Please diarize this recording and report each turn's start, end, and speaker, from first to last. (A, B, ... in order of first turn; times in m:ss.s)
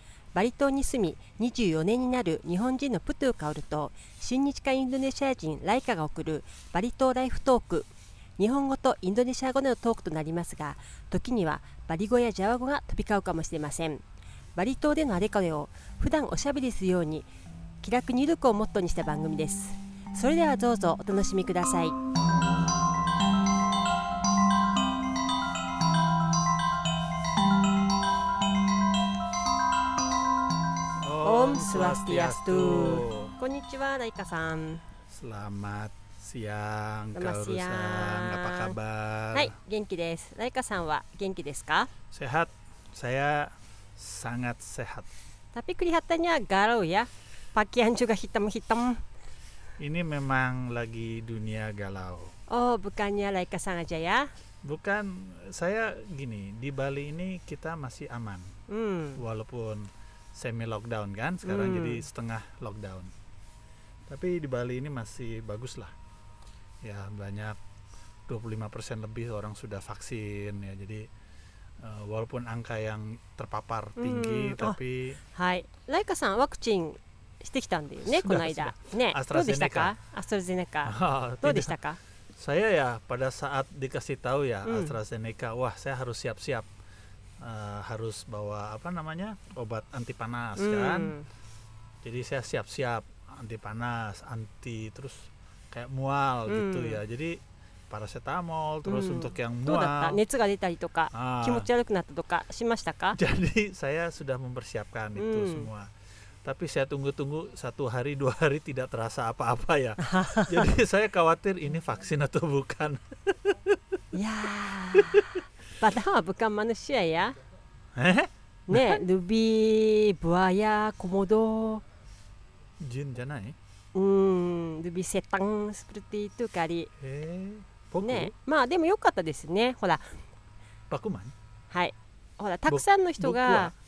0:00.3-0:14.0 A
0:14.6-0:17.3 A
0:17.8-0:22.0 A
0:31.0-0:33.4 B
0:31.2-0:34.8 A
0:35.1-0:39.5 B
0:37.1-0:38.7 A
0:39.3-0:41.9 A
0:42.1-0:45.1 B
0:45.5-0:49.0 A
0:49.8-0:52.3 B
0:52.5-0:54.3 A
0:54.6-0:58.5 B
0:58.7-0:59.2 A
0:59.2-1:03.1 B
1:01.4-1:02.0 A
1:04.1-1:05.9 B
1:06.8-1:07.6 B
1:08.3-1:11.1 B
1:11.8-1:15.2 B
1:14.0-1:14.8 A
1:15.3-1:22.0 A
1:18.0-1:19.9 B
1:20.8-1:21.8 B
1:22.3-1:26.7 B
1:24.6-1:25.0 A
1:27.4-1:31.1 B
1:30.6-1:31.2 A
1:32.0-1:40.2 B
1:36.5-1:37.0 A
1:38.8-1:43.2 A
1:41.1-1:41.7 B
1:43.1-1:45.9 B
1:45.2-1:45.7 A
1:46.4-1:53.8 B
1:50.0-1:50.7 A
1:54.1-1:57.3 A
1:54.9-1:55.3 B
1:57.9-1:59.0 B
1:58.7-2:01.8 A
2:02.8-2:03.6 B
2:03.9-2:06.9 A
2:07.0-2:08.3 B
2:08.0-2:10.0 A
2:10.9-2:11.3 B
2:11.7-2:13.7 A
2:12.7-2:13.7 B